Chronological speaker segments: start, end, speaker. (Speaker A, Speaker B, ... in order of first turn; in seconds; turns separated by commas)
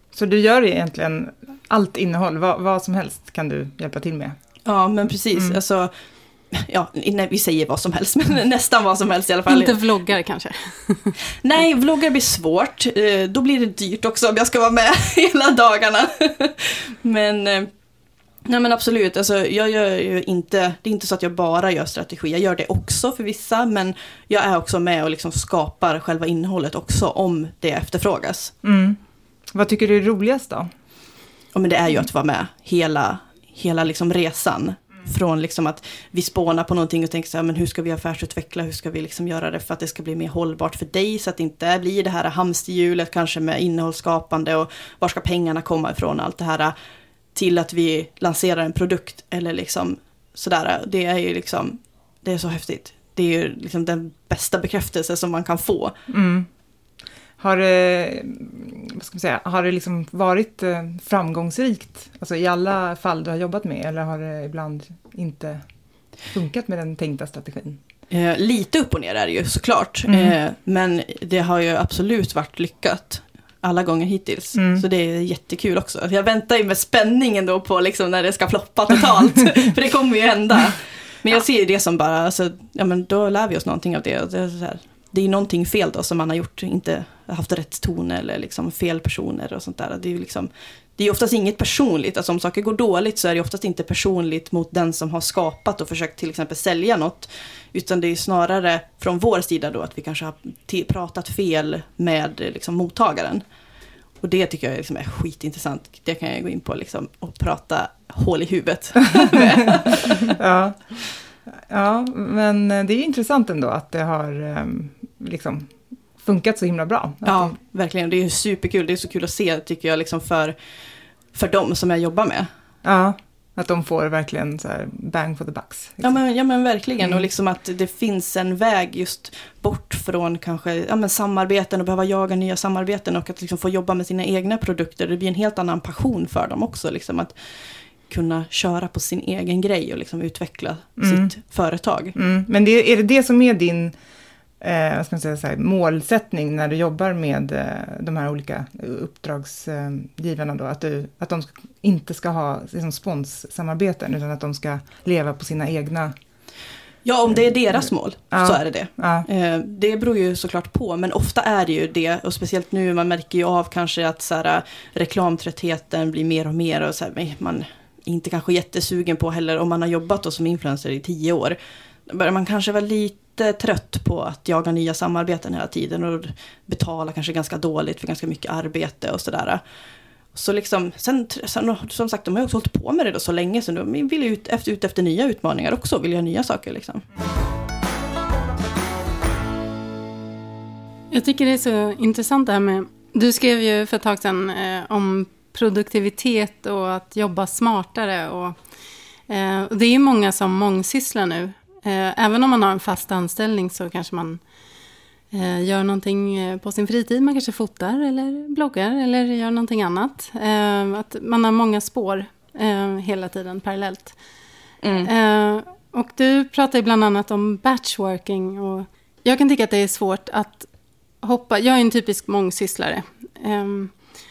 Speaker A: 0.1-4.4, Speaker B: 4.7-5.9, Speaker B: 6.5-9.8, Speaker C: 9.5-11.2, Speaker B: 11.4-17.7, Speaker B: 18.5-28.5, Speaker A: 28.6-29.0, Speaker A: 29.5-30.7, Speaker B: 31.5-46.8, Speaker B: 47.4-56.0, Speaker A: 56.1-56.5, Speaker A: 57.4-65.6, Speaker A: 66.3-67.8, Speaker B: 68.1-103.4, Speaker A: 70.1-70.4, Speaker A: 74.5-74.8, Speaker B: 104.2-110.4, Speaker A: 109.2-117.6, Speaker B: 117.2-120.5, Speaker B: 121.3-122.5, Speaker A: 122.8-126.2, Speaker B: 126.0-137.3, Speaker B: 138.0-142.2, Speaker A: 141.0-141.3, Speaker A: 142.2-144.0, Speaker A: 144.6-156.2, Speaker B: 157.1-179.6, Speaker A: 158.3-159.3, Speaker B: 180.3-187.1, Speaker C: 191.1-198.6, Speaker C: 199.3-204.4, Speaker C: 205.3-214.2, Speaker B: 214.8-215.1, Speaker C: 215.1-220.7, Speaker C: 221.2-224.0